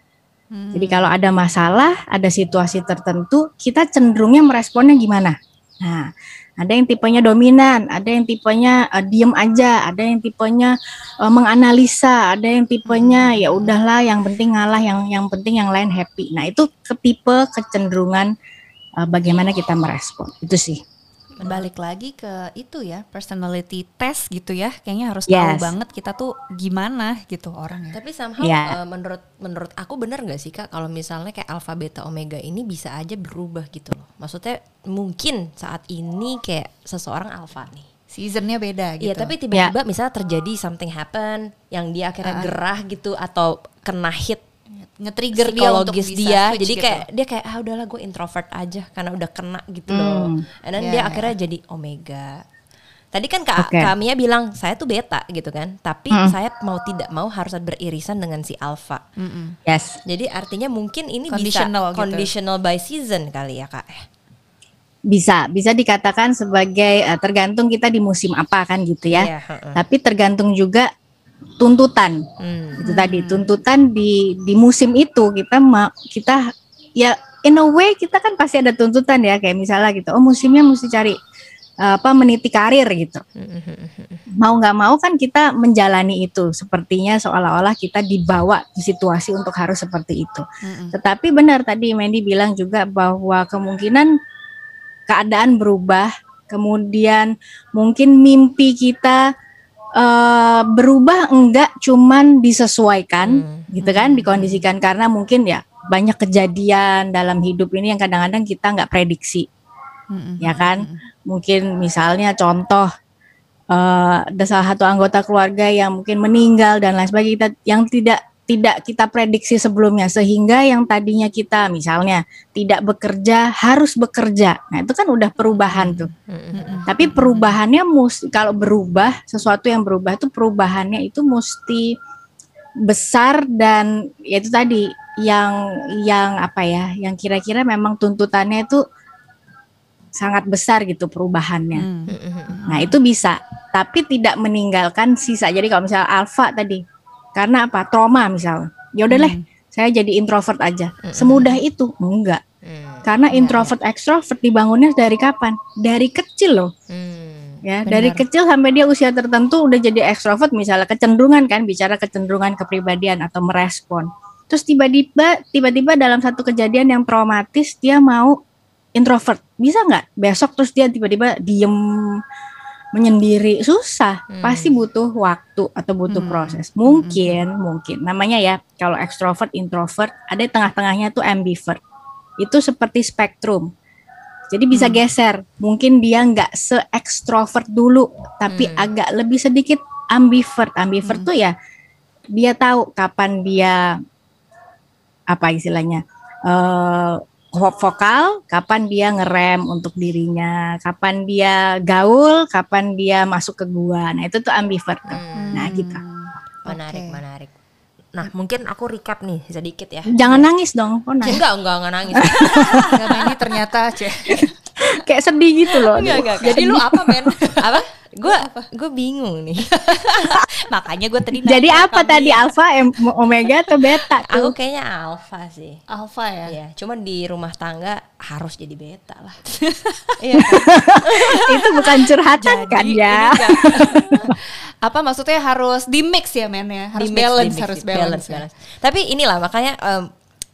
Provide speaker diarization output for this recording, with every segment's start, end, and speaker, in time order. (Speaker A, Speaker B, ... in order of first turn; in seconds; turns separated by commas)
Speaker A: 0.5-1.1, Speaker B: 0.7-18.3, Speaker A: 12.8-13.7, Speaker B: 19.0-20.8, Speaker A: 21.4-28.0, Speaker C: 21.4-21.7, Speaker B: 25.3-25.7, Speaker C: 27.9-37.9, Speaker B: 28.4-28.8, Speaker A: 38.1-39.3, Speaker C: 39.0-44.4, Speaker A: 42.2-42.6, Speaker A: 44.7-47.0, Speaker C: 45.4-52.4, Speaker B: 49.9-50.4, Speaker A: 50.8-51.4, Speaker C: 53.1-59.0, Speaker B: 53.6-53.9, Speaker A: 59.2-59.6, Speaker B: 59.7-60.0, Speaker C: 60.0-64.0, Speaker A: 61.3-62.3, Speaker B: 65.1-70.9, Speaker C: 69.1-69.8, Speaker B: 71.6-72.2, Speaker C: 72.4-72.8, Speaker B: 72.8-76.4, Speaker A: 72.8-73.5, Speaker B: 77.0-81.2, Speaker B: 81.8-83.2, Speaker C: 83.4-84.2, Speaker B: 84.4-94.1, Speaker A: 90.6-90.9, Speaker B: 95.1-99.2, Speaker B: 99.9-109.5, Speaker C: 103.2-103.7, Speaker A: 103.8-104.7, Speaker A: 110.1-111.0, Speaker B: 110.4-112.9, Speaker B: 113.7-126.1, Speaker A: 125.7-127.5, Speaker C: 125.8-126.9, Speaker B: 126.8-131.9, Speaker B: 132.8-138.8, Speaker B: 140.2-141.9, Speaker A: 141.7-143.0, Speaker C: 142.1-142.6, Speaker B: 142.7-146.8, Speaker B: 147.4-152.4, Speaker A: 149.1-149.4, Speaker C: 151.1-151.6, Speaker C: 152.6-153.7, Speaker B: 153.0-156.7, Speaker A: 153.3-153.7, Speaker C: 156.9-157.6, Speaker B: 157.6-168.4, Speaker A: 157.8-158.2, Speaker B: 168.9-172.2, Speaker B: 172.9-181.8, Speaker C: 174.3-174.8, Speaker A: 176.1-177.4, Speaker B: 182.4-183.7, Speaker B: 184.5-191.5, Speaker A: 184.7-185.0, Speaker C: 188.5-188.9, Speaker B: 192.3-194.0, Speaker B: 195.3-206.0, Speaker C: 205.1-205.7, Speaker A: 205.3-207.2, Speaker C: 206.7-207.5, Speaker C: 208.1-210.5, Speaker B: 210.1-211.4, Speaker C: 211.2-213.3, Speaker B: 212.1-213.0, Speaker A: 212.5-214.5, Speaker B: 214.3-217.3, Speaker A: 215.9-218.7, Speaker C: 215.9-216.8, Speaker C: 217.4-220.4, Speaker A: 219.7-222.5, Speaker B: 221.4-224.5, Speaker C: 224.3-225.8, Speaker A: 225.9-226.6, Speaker C: 226.4-229.4, Speaker A: 229.5-230.4, Speaker C: 230.2-231.8, Speaker B: 230.3-234.3, Speaker A: 231.6-238.5, Speaker C: 236.9-240.1